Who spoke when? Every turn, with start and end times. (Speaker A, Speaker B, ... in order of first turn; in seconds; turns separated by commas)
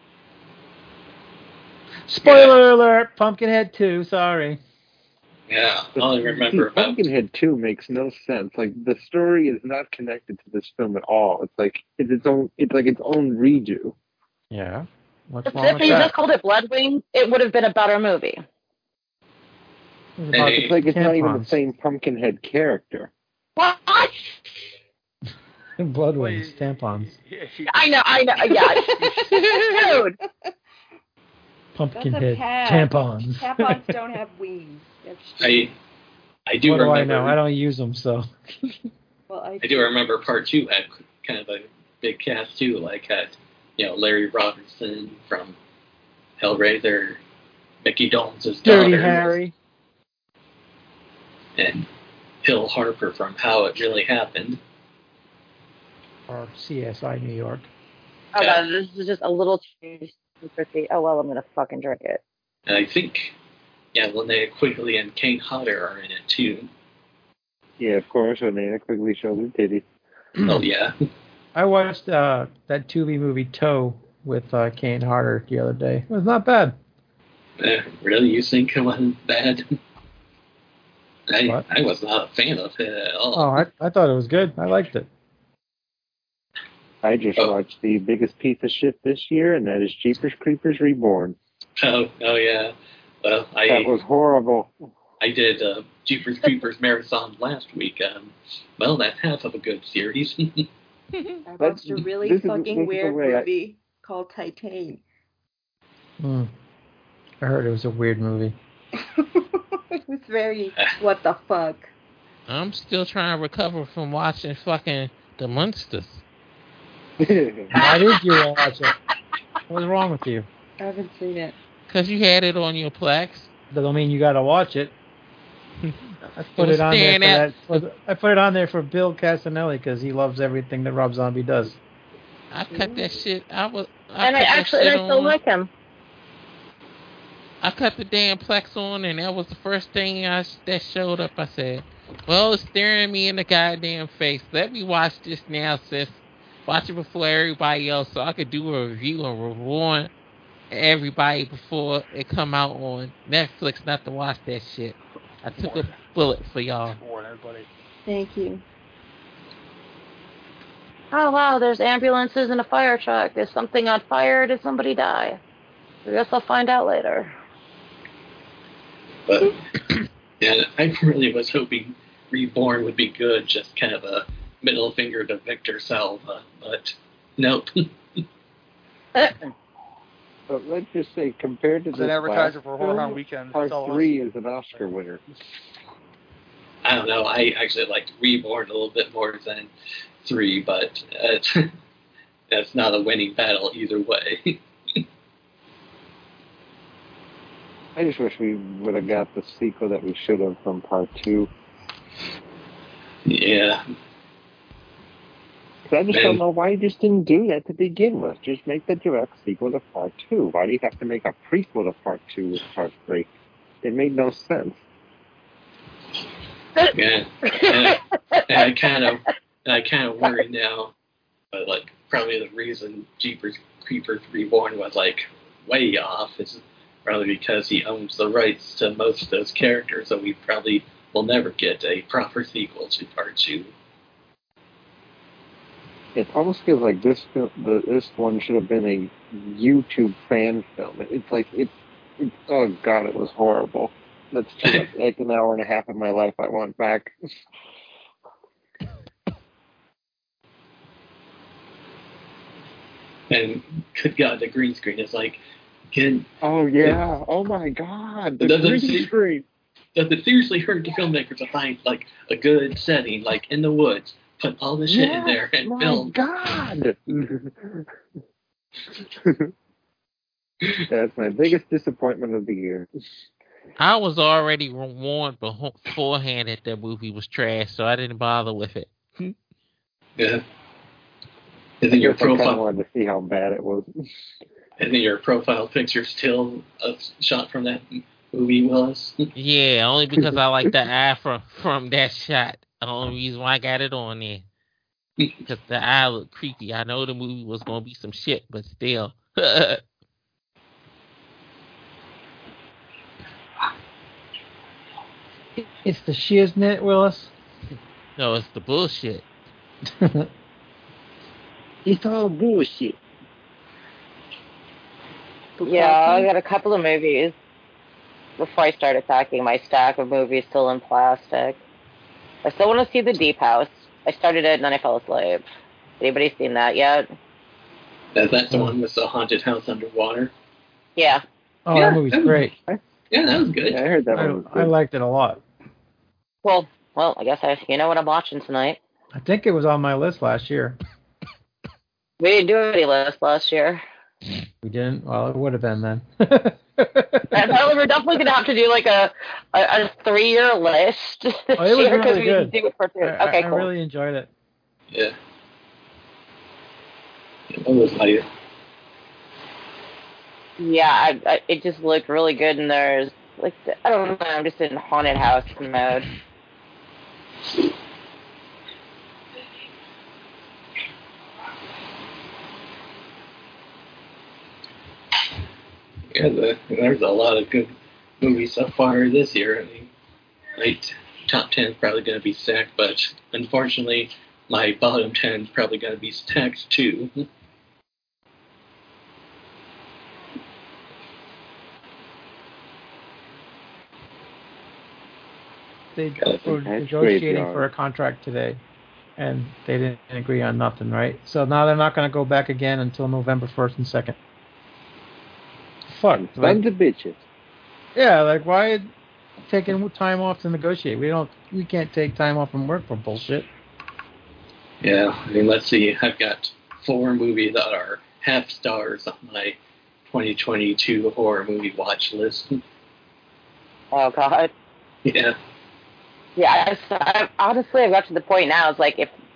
Speaker A: 2.1-4.6, Speaker B: 2.2-2.6, Speaker B: 5.5-7.0, Speaker C: 6.0-13.9, Speaker A: 14.5-16.1, Speaker D: 15.5-18.4, Speaker A: 20.2-21.6, Speaker B: 20.3-20.8, Speaker C: 20.4-23.1, Speaker D: 23.6-24.4, Speaker A: 25.8-27.1, Speaker E: 26.2-27.9, Speaker D: 27.7-30.1, Speaker E: 28.5-29.4, Speaker F: 29.3-30.1, Speaker A: 31.8-34.0, Speaker F: 31.9-35.7, Speaker B: 35.4-35.7, Speaker B: 36.5-37.4, Speaker A: 36.6-38.8, Speaker F: 39.3-40.0, Speaker B: 39.6-45.6, Speaker B: 46.4-47.2, Speaker B: 47.8-49.4, Speaker A: 48.6-49.5, Speaker B: 51.6-51.9, Speaker B: 52.4-54.6, Speaker A: 56.3-57.7, Speaker D: 58.4-62.2, Speaker B: 58.4-58.6, Speaker B: 62.7-63.3, Speaker B: 63.9-66.7, Speaker C: 67.8-69.9, Speaker B: 70.4-70.9, Speaker A: 71.5-76.8, Speaker B: 77.6-79.7, Speaker B: 81.3-83.6, Speaker A: 83.3-85.1, Speaker C: 87.0-91.4, Speaker B: 91.8-93.9, Speaker C: 93.7-94.7, Speaker B: 95.2-100.7, Speaker G: 101.1-101.4, Speaker F: 101.5-105.0, Speaker C: 101.6-103.5, Speaker A: 106.2-106.5, Speaker A: 107.4-108.6, Speaker F: 109.0-111.9, Speaker G: 112.5-116.2, Speaker C: 117.2-117.7, Speaker D: 117.7-118.2, Speaker A: 117.8-118.9, Speaker A: 119.7-120.5, Speaker F: 120.8-121.6, Speaker G: 121.9-123.5, Speaker A: 123.7-124.9, Speaker G: 125.8-127.5, Speaker A: 126.2-131.8, Speaker G: 132.5-135.4, Speaker F: 132.7-133.1, Speaker D: 134.2-135.7, Speaker G: 137.6-150.1, Speaker G: 150.7-157.0, Speaker E: 155.5-156.0, Speaker E: 156.9-157.7, Speaker F: 158.1-158.6, Speaker D: 161.1-165.4, Speaker D: 166.1-167.3, Speaker B: 169.3-177.9, Speaker C: 180.5-185.2, Speaker E: 181.9-184.2, Speaker B: 186.8-189.7, Speaker B: 190.2-191.7, Speaker B: 192.5-194.6, Speaker C: 198.0-201.5, Speaker B: 203.3-203.8, Speaker C: 205.9-213.3, Speaker B: 206.1-206.4, Speaker C: 213.8-214.8, Speaker B: 216.9-220.9, Speaker B: 221.5-233.7, Speaker C: 236.2-247.1, Speaker B: 253.3-255.4, Speaker B: 255.9-256.3, Speaker C: 256.4-259.4, Speaker B: 258.4-259.1, Speaker B: 259.9-266.1, Speaker C: 264.9-267.9, Speaker C: 269.2-269.5, Speaker C: 270.9-272.9, Speaker G: 273.8-279.3, Speaker B: 280.2-280.4, Speaker B: 281.8-282.6, Speaker C: 281.9-283.9, Speaker B: 284.8-289.3, Speaker G: 289.4-294.4, Speaker G: 295.5-299.8, Speaker A: 305.6-307.3, Speaker G: 308.2-309.3, Speaker A: 310.0-310.3, Speaker C: 311.9-313.0, Speaker F: 315.6-316.3, Speaker D: 315.6-317.4, Speaker D: 318.4-321.6, Speaker D: 322.4-325.4, Speaker D: 326.0-327.1, Speaker B: 328.1-330.3, Speaker D: 331.0-331.2, Speaker A: 331.7-332.5, Speaker B: 331.7-332.4, Speaker B: 333.1-333.8, Speaker C: 333.7-334.7, Speaker A: 334.1-335.4, Speaker D: 336.4-338.8, Speaker A: 339.1-340.8, Speaker D: 342.2-343.8, Speaker A: 344.6-347.6, Speaker D: 347.3-353.7, Speaker A: 351.6-354.3, Speaker B: 357.5-358.3, Speaker D: 360.6-366.1, Speaker B: 376.1-379.9, Speaker B: 380.6-387.1, Speaker A: 395.9-398.6, Speaker C: 396.4-397.6, Speaker A: 399.2-404.2, Speaker A: 405.9-406.6, Speaker C: 406.2-407.2, Speaker A: 407.9-408.9, Speaker A: 409.5-413.5, Speaker B: 414.8-419.6, Speaker B: 420.1-422.6, Speaker D: 423.9-424.5, Speaker B: 425.1-425.4, Speaker D: 426.4-429.1